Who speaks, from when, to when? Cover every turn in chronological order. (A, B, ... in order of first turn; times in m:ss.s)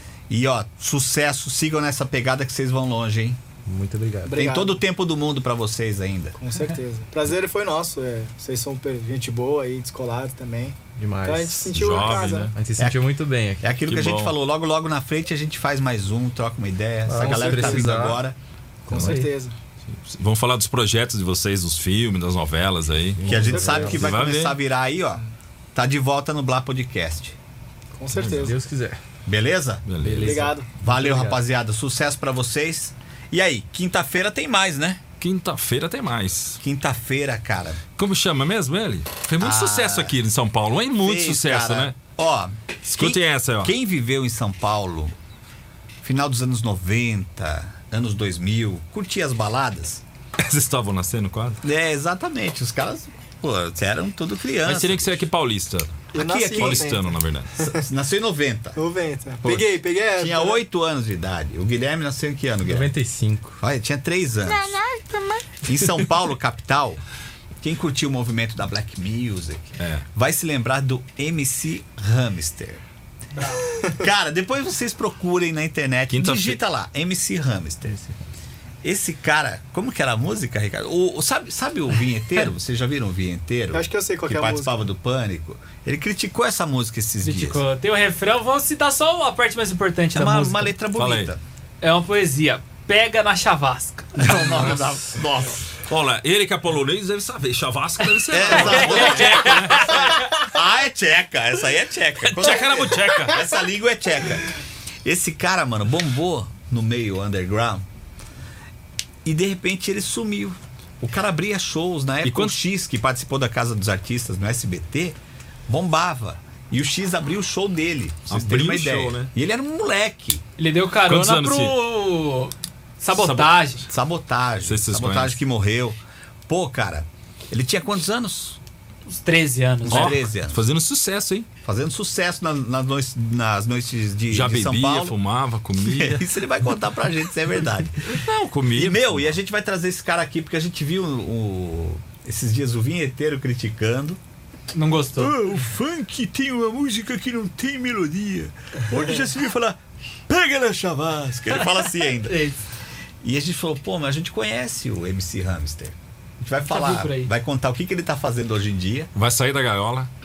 0:00.3-0:03.4 A
0:03.6-0:04.4 B
0:04.2-0:04.8 C
0:04.3-0:06.4 A
0:06.4-0:12.5 C
0:11.0-0:11.7 B
0:11.7-0:12.5 D
0:12.5-0:13.7 B
0:12.8-0:13.0 A
0:13.6-0:18.4 A
0:13.8-0:14.3 D
0:17.0-0:18.2 B
0:17.2-0:18.1 C
0:18.8-0:19.6 C
0:18.9-0:19.3 B
0:19.9-0:24.6 D
0:23.2-0:24.2 B
0:23.2-0:25.2 A
0:23.5-0:24.0 C
0:25.7-0:27.4 A
0:27.9-0:28.5 C
0:28.1-0:28.5 D
0:28.2-0:29.0 B
0:29.2-0:29.8 A
0:29.8-0:30.5 D
0:30.0-0:31.4 B
0:30.2-0:30.7 C
0:30.8-0:35.0 A
0:35.2-0:36.6 D
0:36.6-0:37.8 A
0:38.0-0:41.9 D
0:39.4-0:40.1 A
0:41.0-0:45.2 A
0:42.8-0:43.7 D
0:46.0-0:50.0 A
0:50.4-0:51.6 D
0:51.6-0:55.2 A
0:54.6-0:57.5 D
0:56.1-0:57.8 C
0:56.1-0:56.9 A
0:57.6-0:58.8 A
0:58.7-1:00.6 C
0:59.4-1:02.9 A
1:02.6-1:03.6 B
1:03.6-1:04.8 A
1:05.5-1:07.0 A
1:07.6-1:12.8 A
1:09.8-1:10.0 D
1:13.8-1:18.2 A
1:16.1-1:16.6 D
1:18.8-1:27.6 A
1:23.7-1:24.8 C
1:27.2-1:30.7 E
1:30.1-1:31.4 A
1:30.9-1:31.3 D
1:31.8-1:34.8 E
1:34.2-1:35.7 A
1:34.3-1:34.9 B
1:35.9-1:39.9 D
1:38.3-1:44.5 A
1:38.4-1:40.3 E
1:42.2-1:43.4 D
1:45.0-1:47.8 A
1:49.2-1:55.2 A
1:52.2-1:52.6 D
1:55.7-2:00.4 A
1:58.3-1:59.3 D
2:00.6-2:03.9 E
2:01.0-2:01.7 D
2:03.1-2:03.6 D
2:03.9-2:08.6 A
2:04.6-2:05.4 D
2:09.0-2:10.2 E
2:09.8-2:10.6 A
2:09.9-2:11.5 D
2:11.6-2:15.1 A
2:14.3-2:16.3 D
2:15.8-2:18.2 A
2:18.0-2:19.3 D
2:18.7-2:24.2 A
2:24.7-2:25.4 E
2:25.2-2:32.5 A
2:32.2-2:32.6 E
2:33.2-2:39.1 A
2:36.7-2:37.3 E
2:39.1-2:40.1 D